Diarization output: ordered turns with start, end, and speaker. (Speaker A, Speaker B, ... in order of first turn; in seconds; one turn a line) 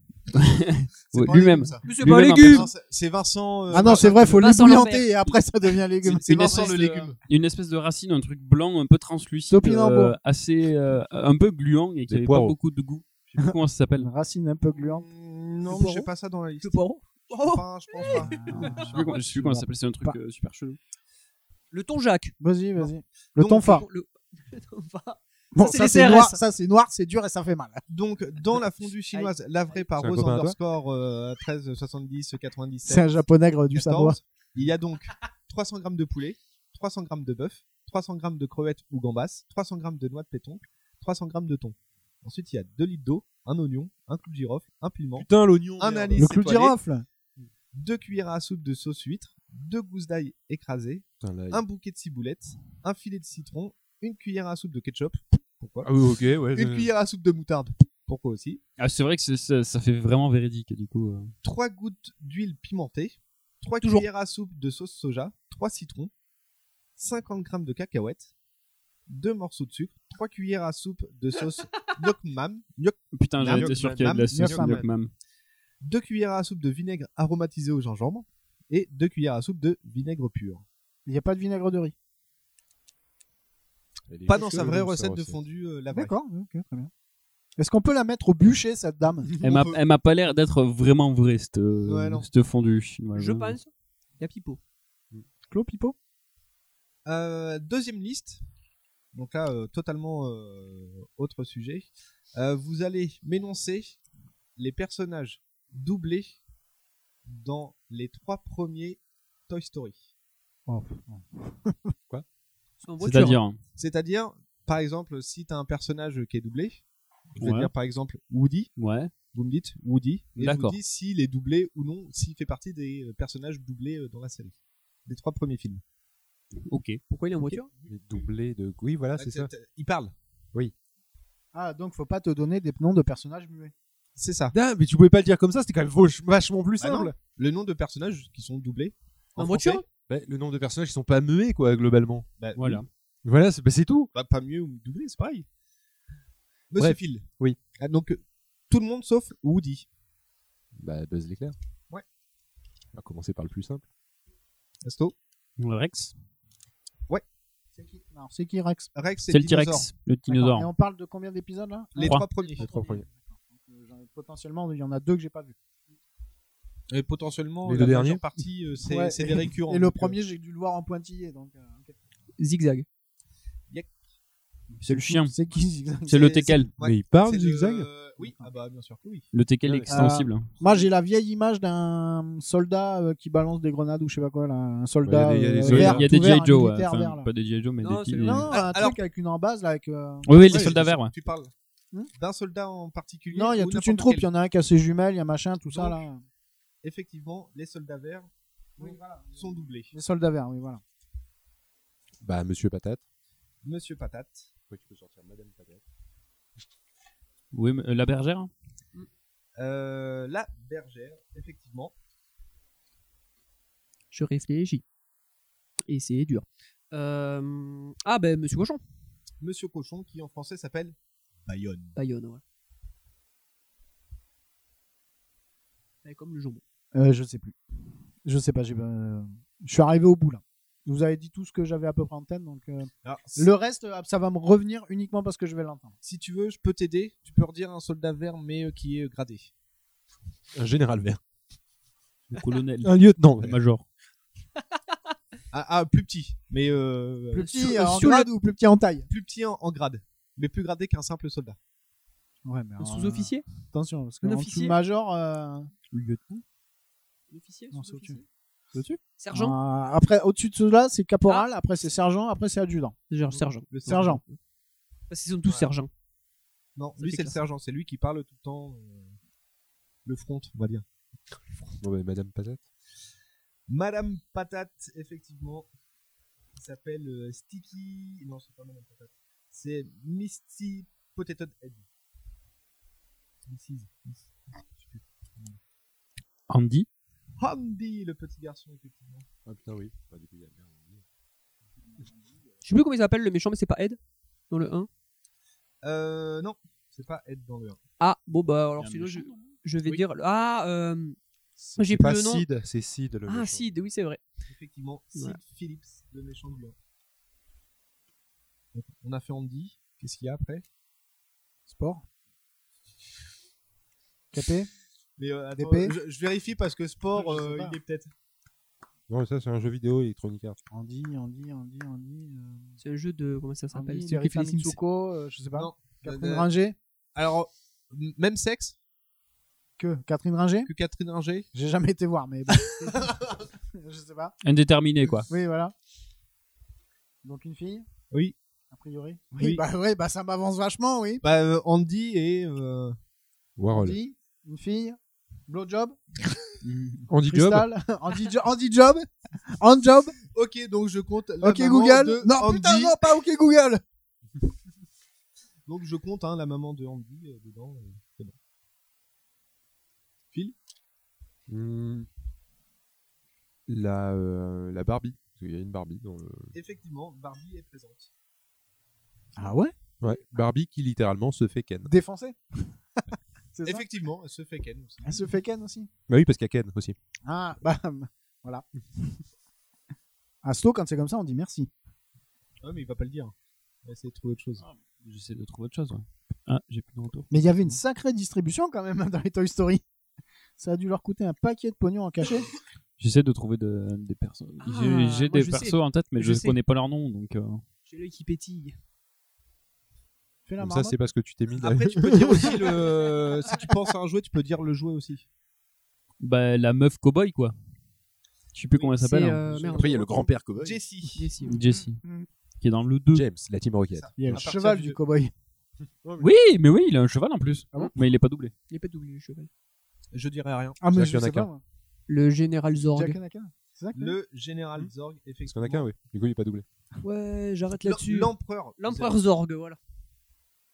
Speaker A: 0.3-2.7
Speaker B: 1.1-4.8
Speaker C: 1.8-2.7
Speaker D: 3.7-6.6
Speaker C: 3.8-5.3
Speaker B: 6.0-7.2
Speaker C: 6.3-7.1
Speaker A: 7.3-14.1
Speaker D: 9.5-10.2
Speaker E: 12.1-12.5
Speaker D: 13.4-15.1
Speaker B: 14.8-16.8
Speaker D: 15.7-16.1
Speaker C: 16.6-19.0
Speaker B: 17.3-18.9
Speaker D: 18.1-20.2
Speaker A: 18.8-20.8
Speaker C: 21.7-22.3
Speaker D: 22.4-23.9
Speaker C: 23.4-26.4
Speaker D: 25.5-27.8
Speaker B: 27.9-33.2
Speaker C: 29.1-29.8
Speaker E: 30.0-30.6
Speaker D: 32.9-34.2
Speaker B: 33.7-46.8
Speaker E: 45.1-46.6
Speaker D: 46.1-47.0
Speaker B: 47.7-55.9
Speaker E: 51.2-51.6
Speaker E: 55.8-56.9
Speaker B: 56.5-58.6
Speaker A: 58.8-61.3
Speaker B: 61.4-66.1
Speaker C: 63.8-64.1
Speaker B: 67.0-68.3
Speaker B: 69.1-74.4
Speaker A: 73.1-75.1
Speaker E: 73.4-74.9
Speaker D: 74.3-74.9
Speaker B: 75.8-80.6
Speaker D: 81.0-81.9
Speaker E: 84.1-85.4
Speaker B: 84.2-86.1
Speaker C: 84.3-84.7
Speaker D: 85.9-86.9
Speaker D: 87.6-89.3
Speaker A: 89.4-93.6
Speaker B: 89.4-89.7
Speaker B: 91.8-92.3
Speaker C: 93.1-94.6
Speaker D: 95.5-96.0
Speaker B: 97.0-98.4
Speaker B: 99.1-104.0
Speaker B: 104.5-106.4
Speaker B: 107.2-110.0
Speaker D: 110.7-111.9
Speaker C: 112.8-113.4
Speaker A: 113.0-113.6
Speaker B: 113.8-116.8
Speaker B: 117.4-118.7
Speaker A: 117.4-117.7
Speaker A: 118.8-119.1
Speaker B: 119.3-124.5
Speaker A: 120.4-120.8
Speaker B: 125.0-125.8
Speaker A: 126.7-127.0
Speaker C: 127.1-127.7
Speaker E: 127.9-129.5
Speaker B: 129.2-130.1
Speaker D: 131.5-133.7
Speaker B: 134.2-134.5
Speaker E: 134.5-137.2
Speaker B: 136.8-139.8
Speaker C: 139.4-139.8
Speaker E: 140.1-142.3
Speaker B: 142.4-142.8
Speaker A: 142.6-142.9
Speaker E: 143.2-144.1
Speaker B: 144.1-145.4
Speaker B: 146.7-147.3
Speaker E: 146.8-147.6
Speaker B: 147.8-149.8
Speaker E: 150.8-151.6
Speaker E: 152.9-153.8
Speaker B: 154.8-155.1
Speaker A: 155.6-156.1
Speaker D: 157.8-158.9
Speaker B: 158.9-159.9
Speaker A: 159.3-160.7
Speaker D: 160.3-165.6
Speaker B: 161.9-162.7
Speaker E: 162.6-163.1
Speaker B: 166.9-170.2
Speaker E: 167.6-168.2
Speaker D: 168.8-171.9
Speaker C: 172.4-172.8
Speaker D: 174.7-176.3
Speaker A: 174.8-175.3
Speaker A: 176.1-176.7
Speaker B: 176.1-179.2
Speaker E: 176.8-177.9
Speaker D: 178.2-178.5
Speaker A: 179.3-180.5
Speaker E: 179.6-179.9
Speaker D: 179.9-187.3
Speaker E: 185.0-186.1
Speaker A: 185.6-188.5
Speaker C: 187.8-188.5
Speaker D: 188.2-190.6
Speaker B: 188.5-189.0
Speaker A: 190.2-191.1
Speaker E: 190.5-190.8
Speaker B: 190.5-191.5
Speaker B: 192.1-194.3
Speaker D: 193.3-196.2
Speaker B: 195.7-196.0
Speaker B: 196.8-199.9
Speaker D: 198.8-200.8
Speaker E: 202.2-203.0
Speaker B: 203.6-204.5
Speaker E: 204.7-205.8
Speaker A: 207.5-208.5
Speaker B: 209.6-211.9
Speaker C: 214.1-214.8
Speaker C: 215.9-218.8
Speaker B: 219.4-221.9
Speaker C: 221.9-222.4
Speaker C: 226.0-226.6
Speaker D: 226.9-227.6
Speaker D: 228.2-235.9
Speaker B: 233.0-233.5
Speaker B: 236.0-239.5
Speaker E: 240.6-241.2
Speaker A: 242.3-243.8
Speaker E: 242.8-243.6
Speaker B: 245.5-247.5
Speaker D: 247.3-249.1
Speaker C: 247.5-248.3
Speaker B: 249.1-251.6
Speaker D: 252.4-255.7
Speaker C: 252.8-253.4
Speaker C: 254.2-254.8
Speaker A: 255.9-256.4
Speaker C: 257.3-258.2
Speaker D: 257.7-258.2
Speaker D: 258.7-262.9
Speaker C: 259.2-259.6
Speaker C: 263.1-264.4
Speaker B: 263.7-264.1
Speaker D: 263.9-264.2
Speaker C: 265.1-265.9
Speaker B: 266.8-269.1
Speaker C: 267.0-267.4
Speaker B: 270.0-270.8
Speaker E: 271.8-272.6
Speaker B: 273.7-275.7
Speaker B: 276.5-281.8
Speaker B: 283.4-284.2
Speaker B: 284.8-285.6
Speaker A: 286.5-286.9
Speaker B: 287.4-289.2
Speaker E: 289.4-291.0
Speaker C: 292.6-294.0
Speaker C: 294.5-294.9
Speaker B: 295.8-297.8
Speaker C: 298.0-301.2
Speaker A: 298.8-299.5
Speaker E: 301.6-303.8
Speaker C: 301.8-302.4
Speaker C: 303.3-304.2
Speaker B: 304.5-306.7
Speaker C: 305.1-305.4
Speaker B: 308.7-310.6
Speaker D: 311.7-312.0
Speaker D: 314.3-314.7
Speaker B: 315.2-318.1
Speaker D: 315.6-315.9
Speaker D: 317.1-317.8
Speaker E: 319.1-320.6
Speaker D: 320.7-322.7
Speaker C: 322.8-324.8
Speaker D: 323.7-326.8
Speaker B: 325.6-326.5
Speaker B: 327.1-328.8
Speaker D: 329.8-330.7
Speaker B: 330.6-331.5
Speaker D: 331.5-333.1
Speaker B: 332.9-333.4
Speaker D: 333.7-334.3
Speaker A: 334.4-335.3
Speaker D: 335.3-335.7
Speaker D: 337.2-337.9
Speaker B: 338.1-338.4
Speaker D: 338.7-341.2
Speaker B: 341.2-342.9
Speaker E: 343.6-344.0
Speaker D: 343.7-346.0
Speaker A: 346.6-347.1
Speaker E: 347.1-347.7
Speaker D: 347.2-350.1
Speaker B: 350.3-353.0
Speaker D: 351.4-353.8
Speaker B: 355.6-358.3
Speaker E: 361.5-362.1
Speaker E: 363.7-366.5
Speaker B: 366.5-368.1
Speaker D: 369.4-369.7
Speaker E: 370.0-371.9
Speaker D: 371.8-373.0
Speaker D: 373.5-373.8
Speaker B: 373.6-375.2
Speaker D: 375.0-375.9
Speaker E: 376.1-377.0
Speaker D: 377.2-378.6
Speaker D: 380.4-381.7
Speaker B: 382.6-384.6
Speaker A: 385.0-387.8
Speaker D: 387.3-389.8
Speaker D: 390.6-392.5
Speaker A: 393.0-397.6
Speaker C: 394.6-396.6
Speaker C: 397.9-398.8
Speaker D: 400.4-401.0
Speaker E: 400.6-402.7
Speaker B: 401.6-405.2
Speaker A: 406.2-407.5
Speaker A: 408.5-409.4
Speaker C: 408.8-410.3
Speaker B: 409.5-410.0
Speaker E: 409.7-410.8
Speaker B: 410.6-411.3
Speaker C: 411.1-411.6
Speaker A: 411.4-412.0
Speaker D: 411.7-412.3
Speaker A: 412.6-413.2
Speaker E: 413.1-414.5
Speaker B: 413.9-415.0
Speaker D: 414.2-415.3
Speaker E: 416.0-416.3
Speaker A: 416.2-418.5
Speaker C: 418.7-419.5
Speaker B: 420.1-420.8
Speaker D: 420.8-421.6
Speaker E: 420.9-421.5
Speaker C: 422.1-423.2
Speaker D: 422.9-424.1
Speaker B: 423.9-425.9
Speaker E: 425.4-426.6
Speaker C: 427.0-429.8
Speaker B: 427.8-429.2